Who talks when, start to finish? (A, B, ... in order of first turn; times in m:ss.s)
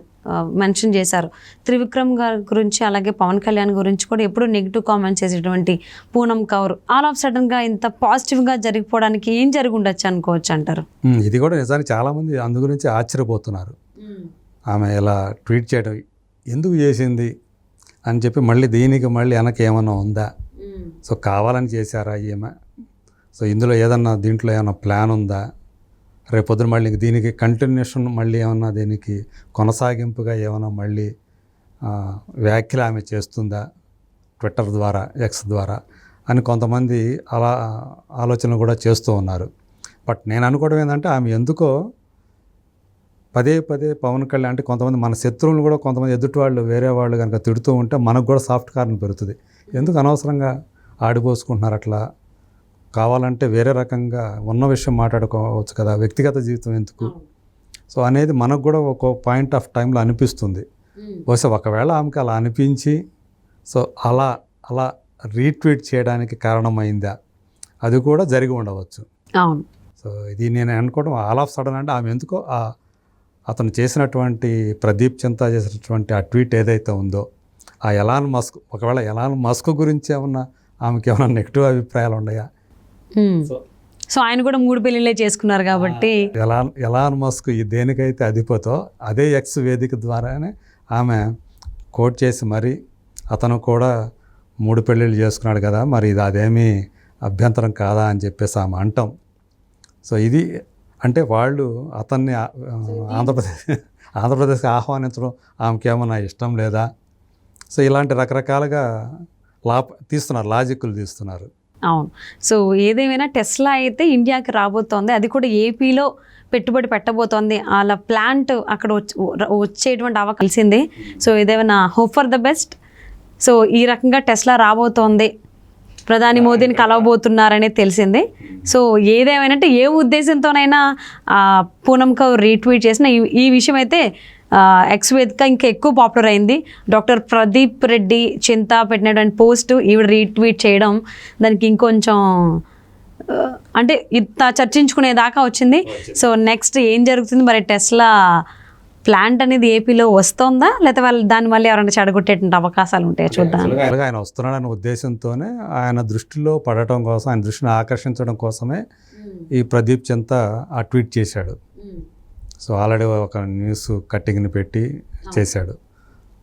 0:00.4-0:10.8 A
0:11.1-0:13.7 B
0:14.0-0:14.3 A
0:14.7-0:16.0 B
0:16.5-0:17.3 B
0:18.0-0:20.3 B
0:20.6-0:20.9 A
0:21.0-0:22.5 B
0:23.4-0:25.4 B
0:26.3-0:31.1 B
0:31.8-0:33.6 B
0:34.4-0:35.8 B
0:36.3-0:39.5 B
0:40.0-0:41.7 B
0:43.3-0:50.5 B
0:49.7-0:50.0 A
0:51.0-0:52.0 B
0:53.0-0:57.1 B
0:57.0-0:57.3 A
0:57.9-1:00.6 B
1:01.3-1:03.0 B
1:03.7-1:07.1 B
1:07.8-1:09.0 B
1:10.0-1:12.6 B
1:13.5-1:17.2 B
1:17.8-1:22.4 B
1:23.2-1:23.5 A
1:24.1-1:26.2 A
1:25.7-1:31.2 B
1:31.9-1:32.7 B
1:33.3-1:33.9 B
1:34.6-1:36.7 B
1:37.3-1:39.1 B
1:40.0-1:40.4 B
1:41.0-1:43.6 B
1:42.8-1:43.3 A
1:44.2-1:46.8 B
1:47.7-1:48.8 B
1:49.7-1:51.5 B
1:51.9-2:02.8 A
2:03.4-2:05.3 A
2:06.1-2:14.0 A
2:06.3-2:07.1 B
2:14.5-2:22.6 A
2:23.3-2:28.1 A
2:25.9-2:26.2 B
2:29.0-2:33.7 A
2:33.3-2:38.8 B
2:39.2-2:39.5 A
2:39.5-2:41.6 B
2:41.8-2:42.0 A
2:42.6-2:45.8 B